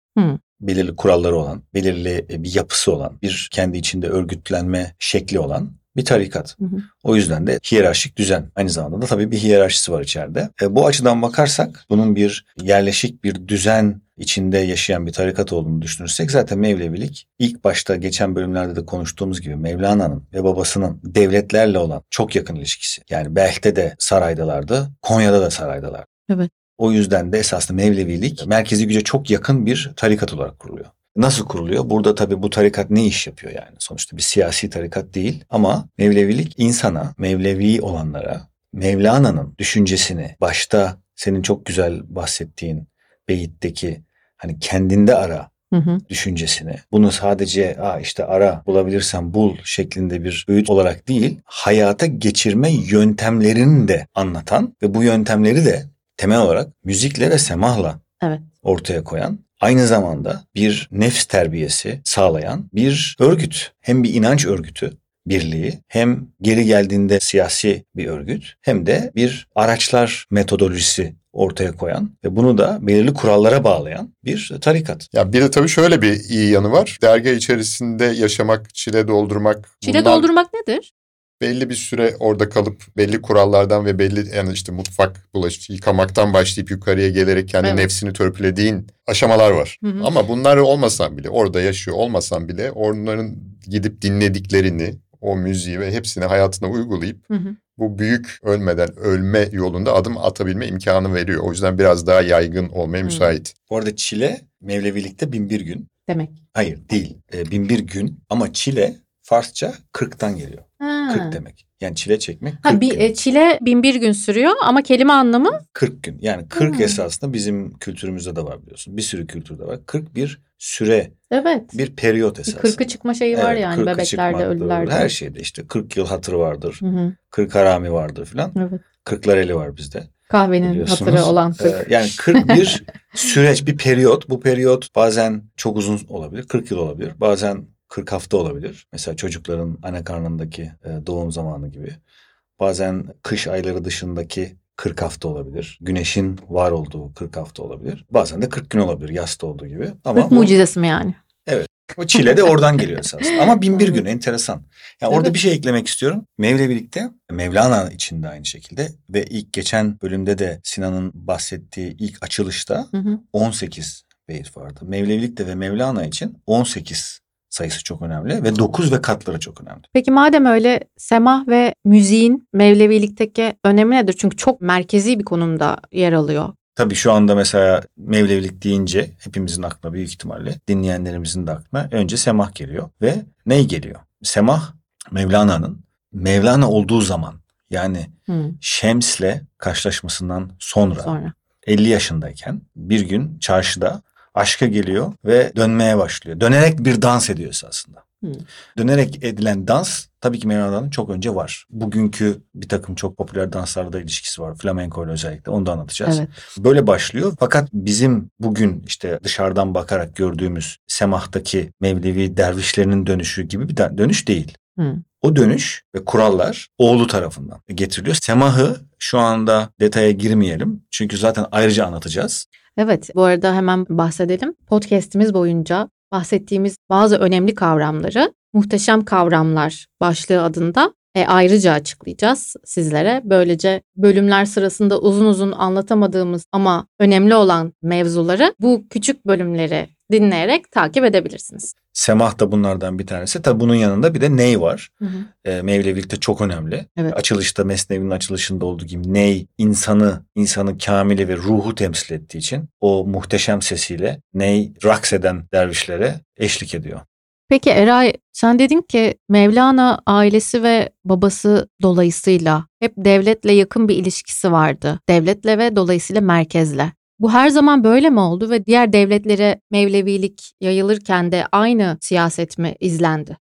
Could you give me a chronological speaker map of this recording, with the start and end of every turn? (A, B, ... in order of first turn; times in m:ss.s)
0:00.6-0:26.1 A
0:26.8-0:45.5 A
0:45.7-0:46.0 B
0:46.1-0:58.0 A
0:58.6-1:15.1 A
1:15.1-1:20.3 C
1:19.8-1:20.9 B
1:21.4-1:43.5 C
1:27.6-1:27.9 B
1:29.8-1:30.1 B
1:37.3-1:37.6 B
1:43.0-1:43.3 B
1:43.7-1:45.9 A
1:46.1-1:46.3 B
1:46.5-1:53.1 A
1:50.8-1:51.4 B
1:52.6-1:55.6 B
1:55.7-2:01.1 A
1:56.5-1:57.0 B
2:01.3-2:01.7 B
2:01.7-2:02.8 A
2:02.4-2:05.1 B
2:03.3-2:10.1 A
2:06.8-2:07.1 B
2:08.5-2:08.8 B
2:10.3-2:12.6 B
2:10.6-2:22.0 A
2:22.6-2:30.5 A
2:30.1-2:31.2 B
2:31.4-2:49.8 A
2:42.9-2:43.2 B
2:49.9-2:56.5 B
2:56.8-3:18.0 A
3:08.3-3:08.6 B
3:11.0-3:11.3 B
3:18.8-3:34.6 A
3:26.0-3:26.4 B
3:34.8-3:35.0 B
3:35.2-3:42.4 A
3:42.8-4:01.7 B
4:01.9-4:04.9 A
4:05.0-4:05.3 B
4:05.4-4:17.0 A
4:17.5-4:33.4 B